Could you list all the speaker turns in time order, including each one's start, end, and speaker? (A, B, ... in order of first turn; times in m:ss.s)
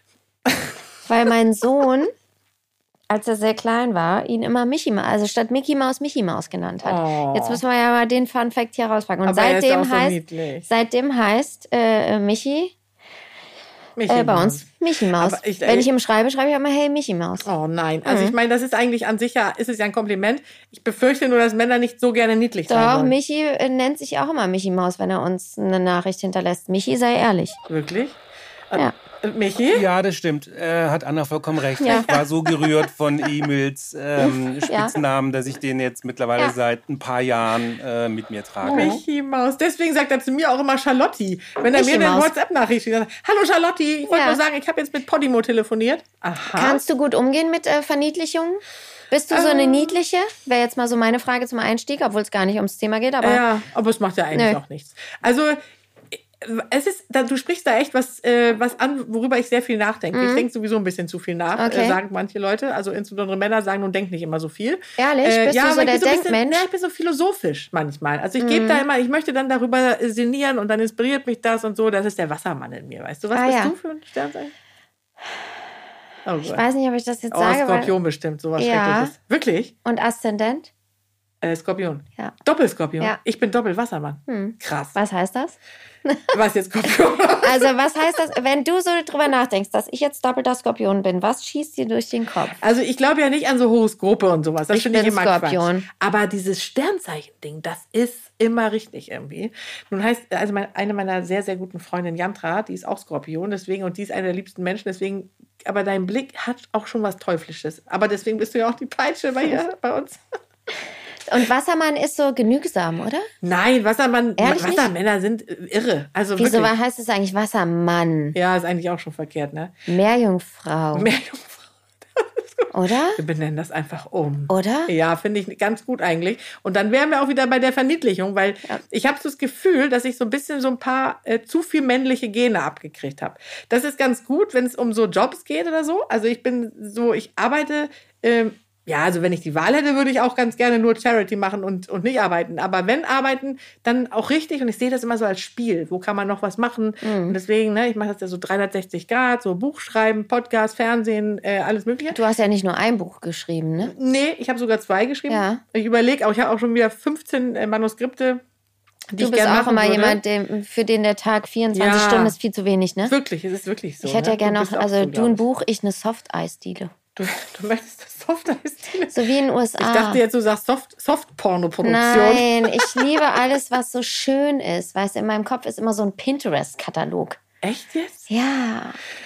0:01.1-0:02.1 A
0:03.1-0:12.7 A
0:06.8-0:07.6 B
0:09.2-0:10.7 B
0:14.0-0:15.9 B
0:14.1-0:17.5 A
0:17.4-0:23.1 B
0:18.0-0:18.4 A
0:22.7-0:27.6 A
0:27.7-0:28.2 B
0:28.7-0:29.9 B
0:29.7-0:38.9 C
0:31.8-0:32.1 A
0:31.8-0:32.7 B
0:34.2-0:35.0 A
0:38.6-0:39.0 A
0:38.7-0:46.8 B
0:41.7-0:42.3 A
0:44.1-0:44.4 A
0:46.5-0:53.4 A
0:49.3-0:50.0 B
0:53.2-0:55.6 B
0:54.3-0:54.6 A
0:56.1-1:14.5 B
1:00.1-1:00.5 A
1:01.6-1:02.0 A
1:05.0-1:06.6 A
1:08.4-1:08.8 A
1:13.3-1:13.7 A
1:16.2-1:16.6 B
1:16.5-1:17.9 A
1:17.3-1:19.7 B
1:18.6-1:19.1 A
1:19.8-1:20.7 A
1:21.4-1:25.0 B
1:24.3-1:26.2 A
1:26.3-1:27.7 B
1:27.4-1:32.6 A
1:32.6-1:50.2 B
1:34.7-1:35.9 A
1:51.3-1:53.3 A
1:53.4-1:56.7 B
1:54.4-1:54.9 A
1:56.4-1:58.4 A
1:58.3-1:59.8 B
1:59.9-2:01.1 A
2:00.9-2:32.2 B
2:02.7-2:03.2 A
2:04.5-2:04.9 A
2:27.0-2:27.4 A
2:32.1-2:33.9 A
2:33.8-2:38.4 B
2:35.3-2:35.6 A
2:39.1-2:40.2 B
2:39.2-2:43.1 A
2:41.7-2:42.4 B
2:43.0-2:45.4 B
2:44.0-2:46.9 A
2:47.2-2:49.2 B
2:49.1-2:50.2 A
2:49.8-2:53.0 B
2:51.8-2:57.4 A
2:57.6-2:58.3 B
2:58.3-2:59.0 A